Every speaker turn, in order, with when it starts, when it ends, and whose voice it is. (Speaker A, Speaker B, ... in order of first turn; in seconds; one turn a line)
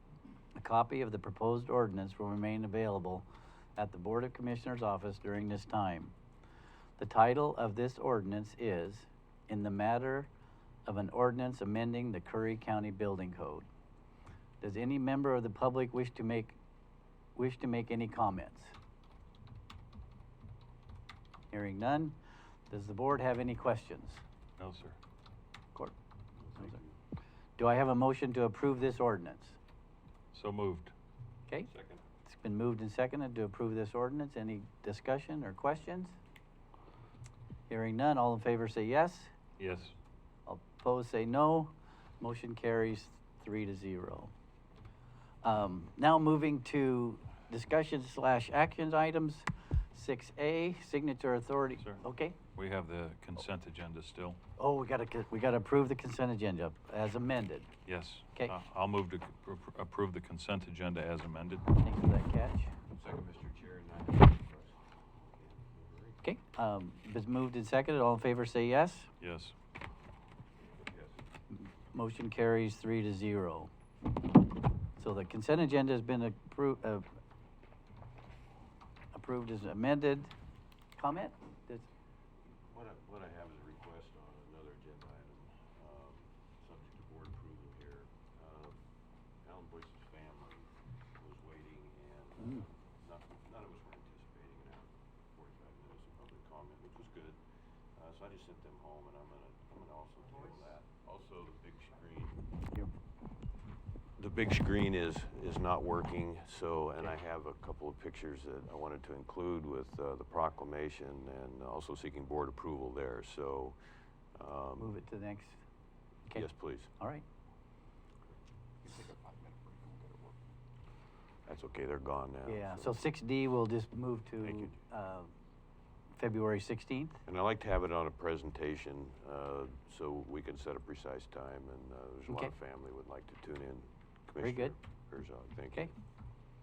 Speaker A: 0.6-3.2
Speaker A: 3.8-6.1
Speaker A: 7.0-10.3
Speaker A: 10.8-13.7
Speaker A: 14.6-16.6
Speaker A: 17.4-18.7
Speaker A: 21.5-22.2
Speaker A: 22.7-24.2
Speaker B: 24.6-25.0
Speaker C: 26.4-26.9
Speaker A: 27.6-29.6
Speaker B: 30.3-30.9
Speaker C: 31.7-32.0
Speaker A: 32.2-36.1
Speaker A: 37.7-39.3
Speaker B: 39.6-39.9
Speaker A: 40.5-44.3
Speaker A: 45.4-52.4
Speaker B: 52.5-54.4
Speaker A: 54.6-57.7
Speaker B: 57.9-61.7
Speaker A: 61.8-62.7
Speaker C: 62.9-66.2
Speaker A: 66.2-69.1
Speaker B: 69.2-69.5
Speaker C: 70.8-71.1
Speaker A: 71.5-73.7
Speaker A: 75.0-77.1
Speaker A: 79.1-80.3
Speaker A: 81.0-81.9
Speaker C: 82.7-88.8
Speaker C: 89.4-97.4
Speaker C: 97.9-102.4
Speaker C: 104.2-113.8
Speaker C: 114.3-114.9
Speaker A: 114.8-115.6
Speaker A: 116.3-117.2
Speaker C: 116.3-116.9
Speaker C: 121.5-123.0
Speaker A: 122.5-125.3
Speaker C: 124.4-124.7
Speaker A: 126.2-127.2
Speaker C: 127.2-135.9
Speaker A: 134.4-134.7